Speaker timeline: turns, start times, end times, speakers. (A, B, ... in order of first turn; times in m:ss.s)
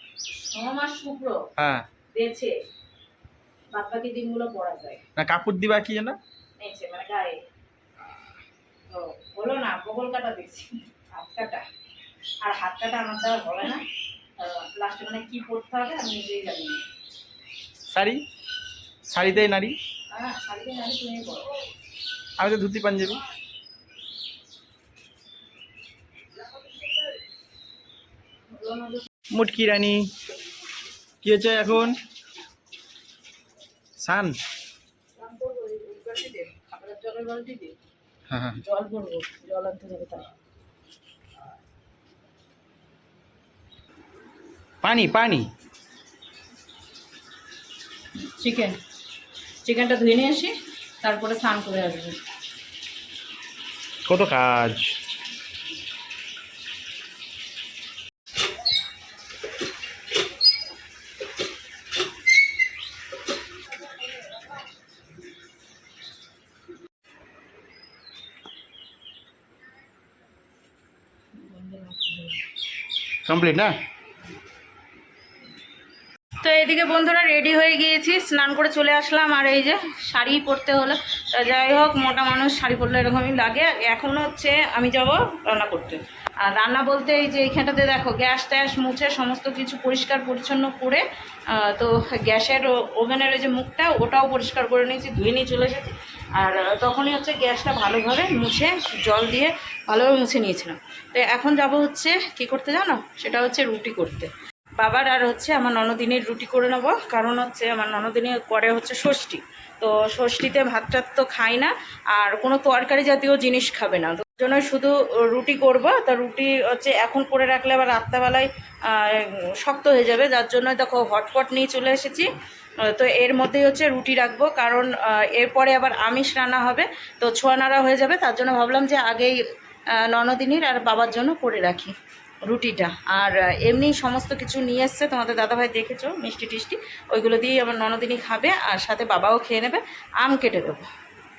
0:00.5-0:01.4 A
0:01.6-0:01.8 B
0:02.1-0:02.6 A
0:03.7-0:05.0 A
0:05.2-0:06.2 B
0:06.6-0:07.4 A
0:08.9-0:11.6 A
0:12.4-0:13.8 A
0:14.4-0:16.8 A
0:17.9-0:18.2 B
0:19.1-0:19.8 B
0:20.1-0:21.5 A
0:22.4-0:23.2 B
0:28.5-0:29.0 A
0:29.3-0:30.1 B
0:31.2-0:32.0 B
0:34.0-0:34.4 B
0:35.2-0:37.7 A
0:38.3-0:38.6 B
0:38.6-0:40.3 A
0:44.8-0:45.5 B
0:48.4-0:48.8 A
0:49.6-0:52.2 A
0:54.1-0:55.0 B
1:11.3-1:12.4 A
1:13.2-1:13.7 B
1:16.4-2:11.9 A
2:12.4-2:20.9 A